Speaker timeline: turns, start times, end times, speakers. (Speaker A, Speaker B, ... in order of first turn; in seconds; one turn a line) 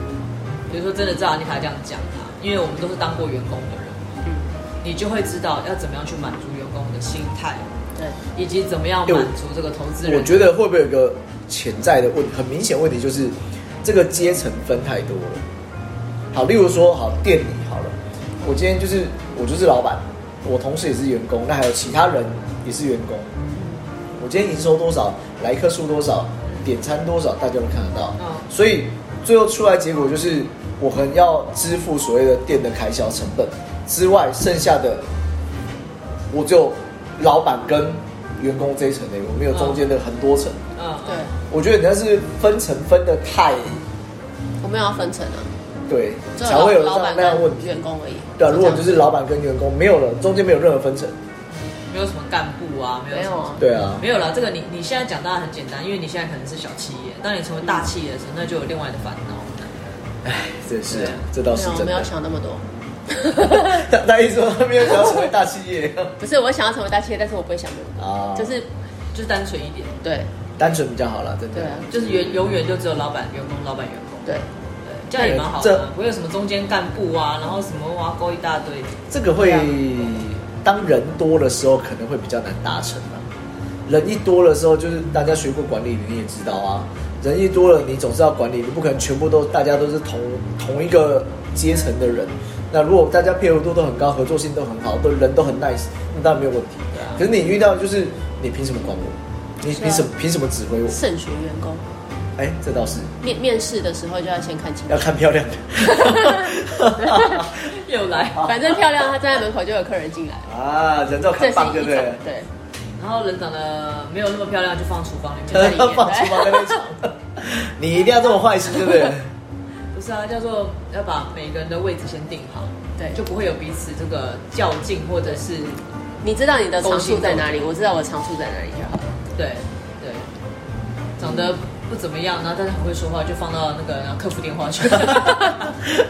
Speaker A: 0.7-4.0
Speaker B: 4.2-4.5
Speaker A: 4.8-7.7
Speaker A: 8.3-10.5
Speaker C: 10.1-15.4
Speaker C: 16.3-23.3
Speaker C: 24.2-35.1
Speaker A: 28.2-28.5
Speaker C: 36.3-40.6
Speaker A: 39.5-39.8
Speaker A: 40.8-41.2
Speaker B: 41.1-41.3
Speaker C: 41.5-43.8
Speaker B: 44.6-45.5
Speaker C: 45.9-47.8
Speaker B: 46.4-49.0
Speaker C: 48.4-51.1
Speaker A: 51.5-59.7
Speaker B: 53.1-53.6
Speaker C: 53.6-54.1
Speaker C: 60.2-62.1
Speaker A: 60.9-61.2
Speaker B: 61.5-63.9
Speaker C: 63.4-66.1
Speaker B: 66.2-68.7
Speaker C: 68.0-68.5
Speaker A: 69.1-70.0
Speaker B: 70.0-70.3
Speaker C: 70.6-72.4
Speaker B: 71.5-71.9
Speaker A: 71.9-74.3
Speaker A: 74.8-79.0
Speaker C: 75.2-75.9
Speaker C: 79.1-83.3
Speaker B: 79.4-79.8
Speaker C: 83.9-101.0
Speaker B: 99.7-100.1
Speaker B: 100.9-101.9
Speaker C: 102.4-103.1
Speaker B: 103.2-105.1
Speaker C: 104.9-107.7
Speaker B: 105.8-107.4
Speaker A: 107.5-108.6
Speaker B: 108.4-110.5
Speaker C: 110.5-112.2
Speaker B: 111.4-112.5
Speaker A: 113.0-116.1
Speaker C: 115.5-119.3
Speaker B: 115.6-116.8
Speaker A: 119.9-125.8
Speaker B: 126.2-129.1
Speaker A: 126.8-127.7
Speaker A: 129.3-130.3
Speaker A: 131.2-135.8
Speaker C: 131.2-131.5